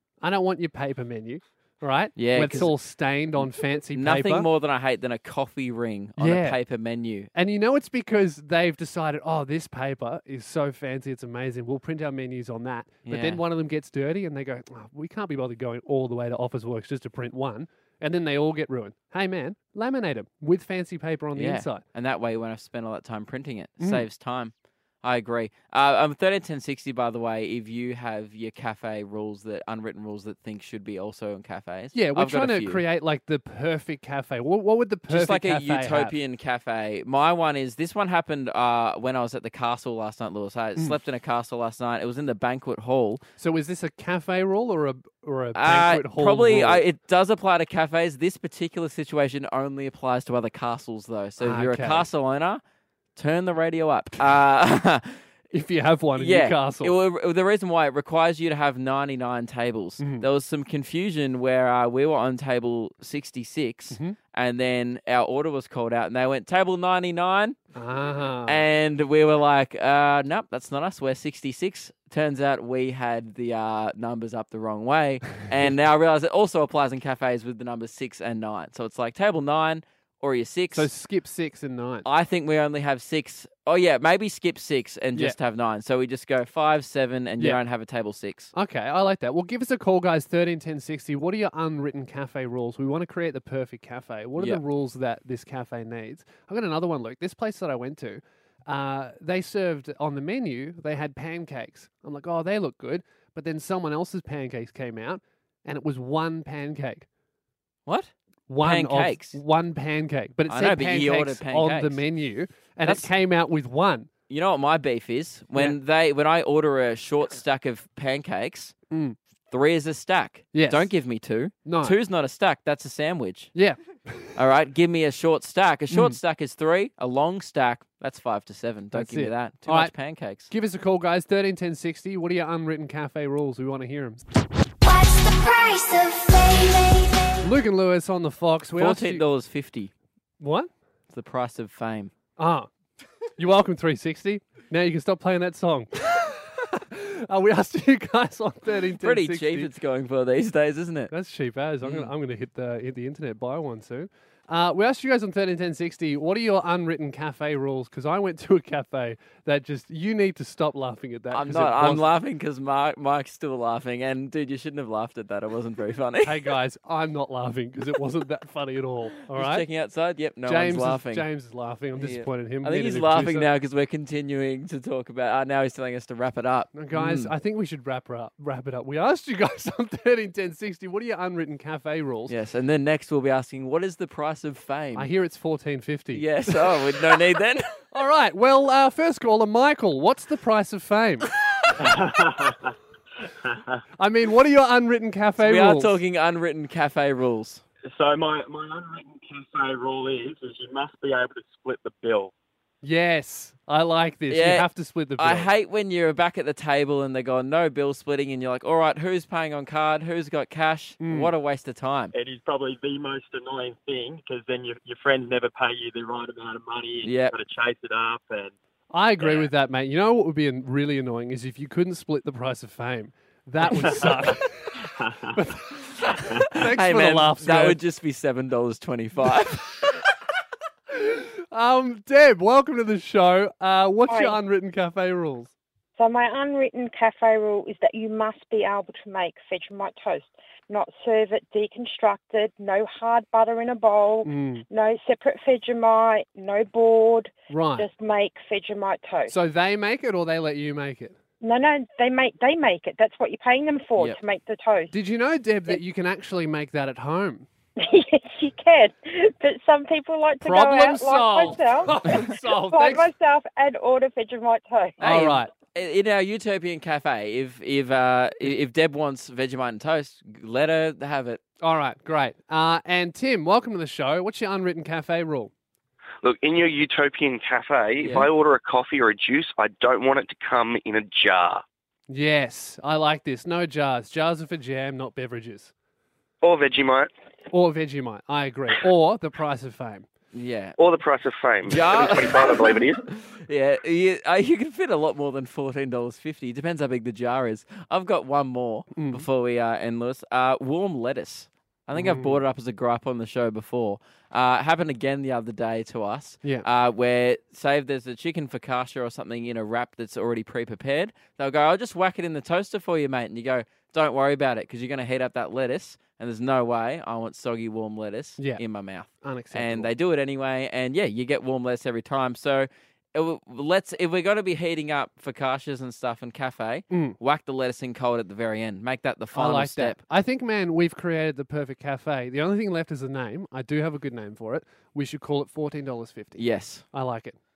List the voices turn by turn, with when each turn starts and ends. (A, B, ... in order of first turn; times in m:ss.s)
0:00.2-0:04.5 A
0:02.2-0:02.7 B
0:03.9-0:07.3 B
0:06.2-0:06.6 A
0:07.3-0:21.8 A
0:13.0-0:13.4 B
0:21.3-0:32.8 B
0:23.8-0:24.0 A
0:31.9-0:36.1 A
0:35.1-0:43.2 B
0:43.4-0:46.8 A
0:45.5-0:52.6 B
0:51.4-0:52.1 A
0:53.2-0:55.2 B
0:55.5-0:57.0 A
0:56.2-1:07.6 B
1:00.0-1:00.3 A
1:03.9-1:04.2 A
1:07.7-1:08.6 A
1:08.4-1:20.9 B
1:20.7-1:22.1 A
1:22.0-1:28.5 B
1:28.5-1:47.1 A
1:47.8-1:49.4 B
1:48.5-1:54.1 A
1:50.5-1:52.0 B
1:52.8-1:53.1 B
1:54.3-1:58.7 B
1:58.9-1:59.2 A
1:59.5-2:03.5 B
2:00.5-2:00.9 A
2:01.6-2:02.0 A
2:03.5-2:04.2 A
2:04.4-2:10.5 B
2:05.9-2:06.2 A
2:08.9-2:09.9 A
2:10.5-2:14.2 A
2:14.8-2:17.4 C
2:17.4-2:19.2 A
2:18.8-2:19.9 B
2:20.4-2:20.7 A
2:21.1-2:22.1 B
2:22.4-2:22.7 A
2:23.4-2:29.7 A
2:29.0-2:31.1 B
2:31.1-2:42.1 A
2:31.8-2:32.1 B
2:41.3-2:46.5 B
2:46.2-2:49.7 A
2:49.3-2:51.2 B
2:50.4-2:53.5 A
2:52.0-2:57.3 B
2:56.7-3:02.3 A
3:02.3-3:05.1 B
3:04.9-3:07.2 A
3:06.1-3:07.8 B
3:07.9-3:11.3 A
3:11.8-3:12.7 D
3:13.4-3:13.8 D
3:14.0-3:16.0 A
3:15.4-3:17.6 B
3:17.9-3:22.3 D
3:22.8-3:25.5 A
3:24.3-3:32.1 B
3:31.0-3:31.3 A
3:32.1-3:38.5 D
3:37.0-3:37.3 B
3:38.9-3:47.8 A
3:43.8-3:45.4 D
3:46.1-3:50.0 B
3:50.9-3:55.5 A
3:54.1-3:54.4 E
3:56.0-4:09.3 E
4:04.2-4:04.6 A
4:07.5-4:07.9 A
4:09.3-4:11.2 A
4:11.4-4:14.9 E
4:14.9-4:17.5 A
4:17.8-4:25.2 E
4:20.4-4:23.1 A
4:25.0-4:25.5 A
4:25.0-4:31.4 B
4:31.6-4:35.5 A
4:36.2-4:41.6 F
4:38.0-4:38.3 B
4:42.1-4:45.7 A
4:46.4-4:47.1 F
4:47.5-4:50.1 A
4:50.3-4:50.8 B
4:50.8-4:53.0 F
4:51.7-5:30.0 B
4:58.9-4:59.3 A
5:01.9-5:02.4 A
5:18.4-5:18.6 A
5:19.2-5:19.9 A
5:26.9-5:27.2 A
5:29.3-5:37.4 A
5:36.4-5:36.8 B